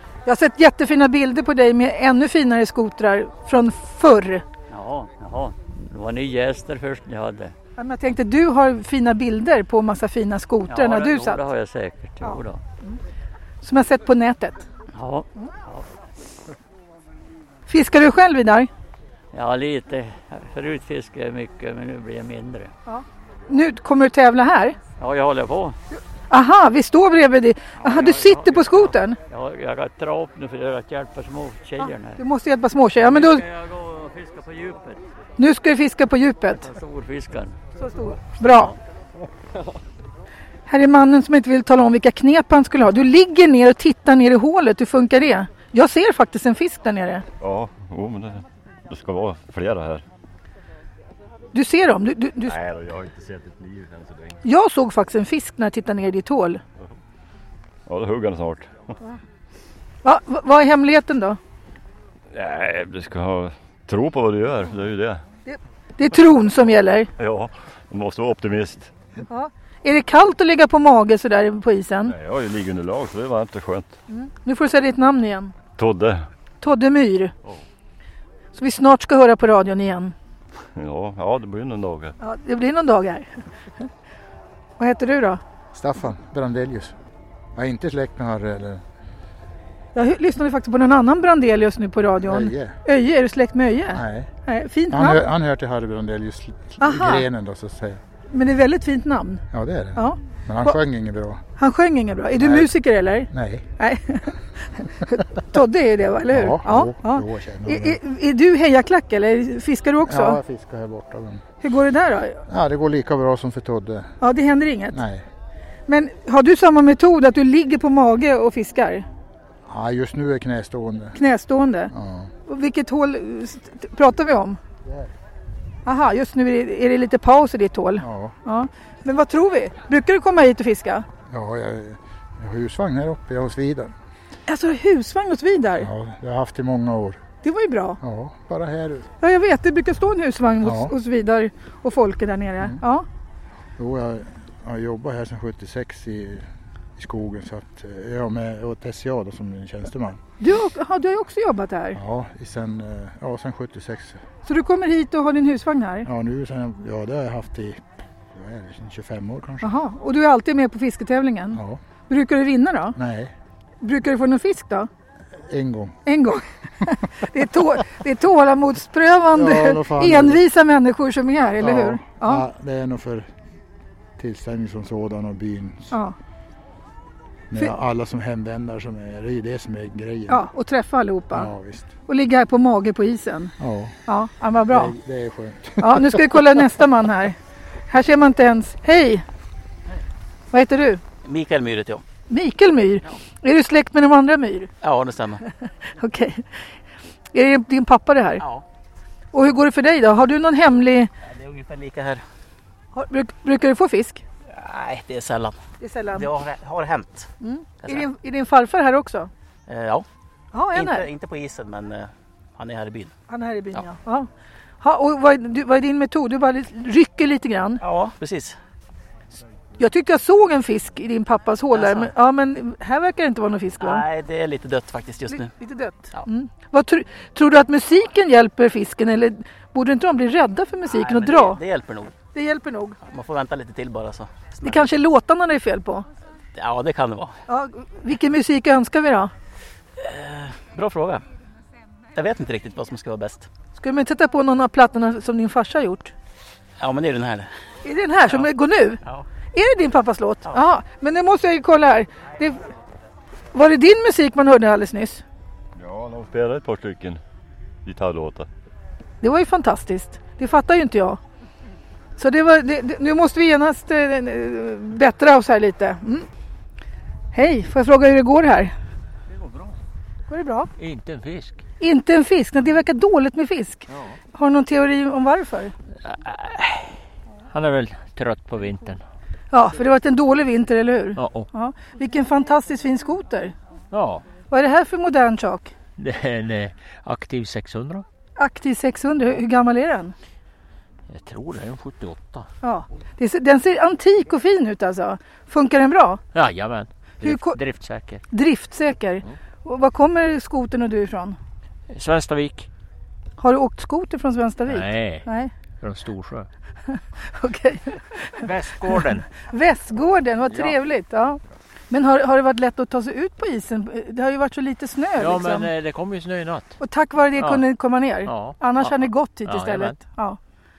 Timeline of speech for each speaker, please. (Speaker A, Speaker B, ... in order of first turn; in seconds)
Speaker A: 0.3-4.4, 7.8-11.4, 12.2-13.0, 13.6-14.7, 17.7-18.7, 22.9-24.8, 26.3-29.2, 32.2-33.5, 35.4-36.7, 37.8-38.7, 40.7-47.2, 51.5-52.6, 54.4-56.6, 60.0-61.4, 65.5-67.1, 69.3-72.1, 74.1-75.5, 76.6-77.3, 78.5-80.1, 82.2-83.3, 84.8-85.4, 90.0-95.3, 96.8-97.3, 98.3-99.4, 100.0-100.8, 101.6-110.4, 111.6-112.4, 114.2-115.0, 115.9-119.1, 121.2-121.9, 122.5-124.6, 125.9-131.1, 134.5-135.9, 137.4-138.0, 139.2-143.1, 150.4-152.0, 154.5-156.1, 159.6-163.0, 163.8-164.9, 166.1-172.4, 180.3-181.5, 182.1-183.5, 184.1-184.9, 185.8-187.4, 187.9-189.2, 190.5-191.0, 192.3-194.7, 195.9-196.6, 197.3-198.4, 199.3-201.1, 202.9-204.2, 205.8-206.3, 207.4-209.3, 210.5-211.1, 213.3-214.3, 214.8-217.8, 219.8-224.1, 225.3-231.6, 232.3-233.0, 234.6-236.1, 237.5-239.3, 243.8-246.1, 247.8-249.0, 249.5-252.7, 253.5-255.2, 259.2-261.2, 262.2-266.3, 267.3-268.7, 270.3-270.7, 271.8-275.7, 279.5-283.5, 284.5-285.7, 288.4-290.1, 292.6-296.2, 297.2-297.6, 298.3-301.4, 303.4-305.5, 306.9-308.0, 309.4-315.7, 316.8-320.4
Speaker B: 4.7-7.5, 10.7-12.6, 14.9-15.8, 19.3-22.7, 25.0-25.8, 27.8-32.2, 33.0-35.0, 36.6-37.5
Speaker C: 47.4-50.0, 52.4-54.4, 57.9-58.9, 62.3-65.2, 67.2-68.9, 72.0-74.0, 75.8-76.3, 80.8-82.2, 255.8-257.2, 257.9-258.5
Speaker D: 85.7-86.9, 87.5-88.8, 92.2-92.8, 93.9-94.3, 94.9-98.0, 99.5-101.4, 102.4-102.7, 103.3-103.7, 106.3-108.0, 110.1-111.4, 112.5-114.2, 114.9-115.2, 119.7-121.2, 121.9-122.3, 128.0-128.3, 131.3-133.9, 135.8-137.2, 138.0-139.1, 140.6-140.9, 143.8-146.5, 147.0-150.2, 151.9-154.2, 156.1-157.8, 158.3-159.7, 161.5-161.8, 162.9-163.3, 165.4-166.0, 169.3-170.4, 171.6-173.3, 174.2-175.9, 177.5-180.4, 181.3-181.9, 183.6-184.0, 184.7-186.6
Speaker E: 191.2-192.0, 194.8-195.4, 201.3-202.2, 204.6-205.6, 206.1-207.3, 209.7-210.1, 210.7-213.1, 217.8-218.6, 221.7-222.1, 223.8-225.5, 230.9-232.1, 233.1-234.9, 236.6-237.3, 240.0-241.2, 242.2-243.5, 246.8-247.5
Speaker F: 269.3-269.8, 270.8-271.6, 273.9-274.2, 276.0-277.0, 277.5-279.0, 281.2-281.5, 283.9-284.2, 286.0-288.1, 291.1-292.5, 296.3-298.2, 301.9-302.7, 304.7-305.3, 305.8-306.5, 308.4-309.3, 315.2-316.8, 317.4-317.7, 318.2-320.0